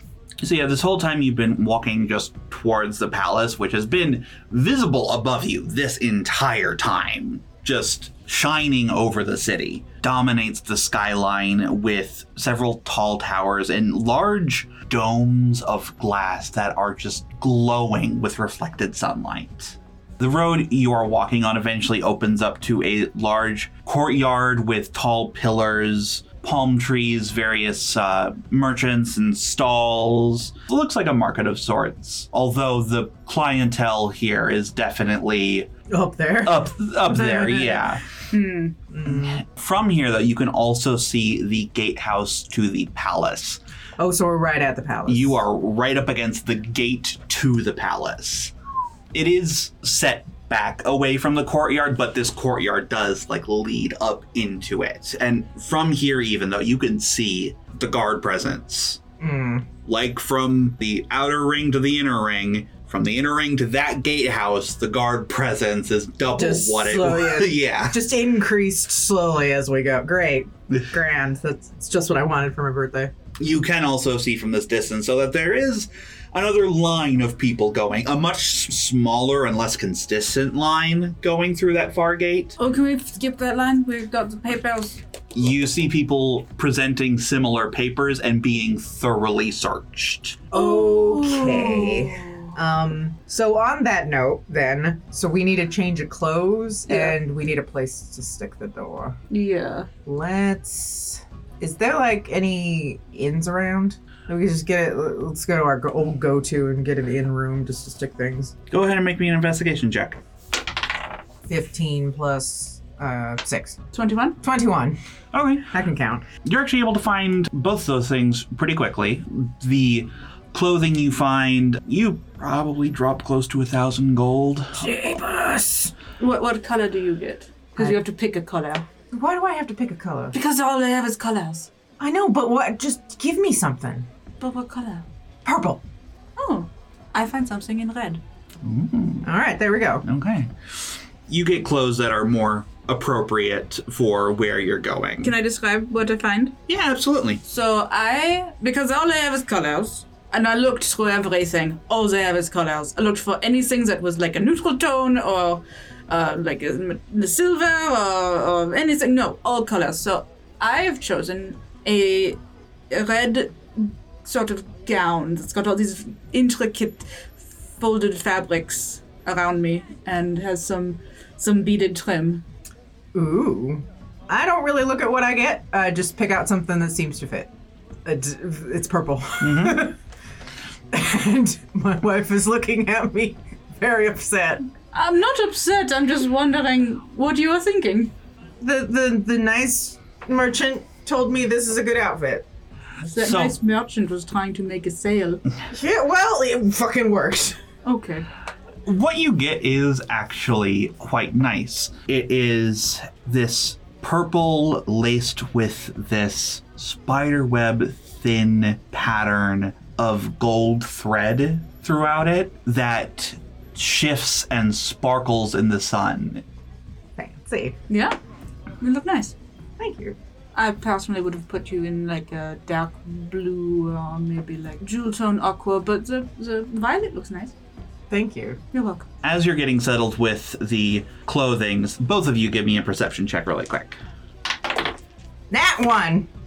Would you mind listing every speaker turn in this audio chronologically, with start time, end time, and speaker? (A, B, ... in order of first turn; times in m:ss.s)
0:00.4-0:35.7 A
0:35.9-0:37.8 B
0:36.4-0:38.0 A
0:38.3-0:38.8 C
0:38.9-0:39.4 B
0:39.0-0:43.6 A
0:44.0-0:45.4 B
0:45.1-0:48.5 A
0:49.1-0:59.0 A
0:59.2-0:59.7 B
0:59.8-1:08.0 A
1:06.4-1:13.1 B
1:13.4-1:22.6 A
1:22.6-1:25.0 C
1:25.3-1:30.4 A
1:30.5-1:39.2 B
1:30.5-1:32.5 C
1:36.9-1:37.2 C
1:39.3-1:39.9 C
1:40.0-1:48.5 B
1:48.7-1:50.2 A
1:51.5-1:53.8 B
1:53.9-1:54.4 C
1:54.4-1:55.0 B
1:55.3-1:55.7 A
1:55.7-1:56.2 B
1:56.4-2:04.9 A
2:04.8-2:05.9 B
2:06.2-2:08.9 C
2:09.1-2:10.4 B
2:10.3-2:11.7 C
2:12.0-2:14.1 B
2:14.4-2:15.0 C
2:15.4-2:15.8 B
2:16.4-2:18.2 C
2:18.6-2:19.3 A
2:19.2-2:20.0 B
2:20.0-2:25.4 A
2:25.2-2:26.6 C
2:26.7-2:27.4 A
2:27.4-2:42.4 C
2:42.9-2:52.4 C
2:53.1-2:57.5 B
2:58.0-3:00.0 B
2:59.4-2:59.9 A
3:00.9-3:04.7 B
3:04.9-3:08.1 C
3:08.6-3:12.5 B
3:13.1-3:15.4 C
3:13.2-3:13.6 A
3:15.7-3:17.6 B
3:17.8-3:18.3 C
3:18.9-3:36.4 A
3:37.2-3:37.8 B
3:37.9-3:38.2 C
3:38.8-3:39.3 C
3:39.8-3:40.2 B
3:40.6-3:47.5 C
3:48.1-3:48.6 B
3:48.7-3:49.1 C
3:49.2-3:54.0 A
3:55.5-3:56.3 B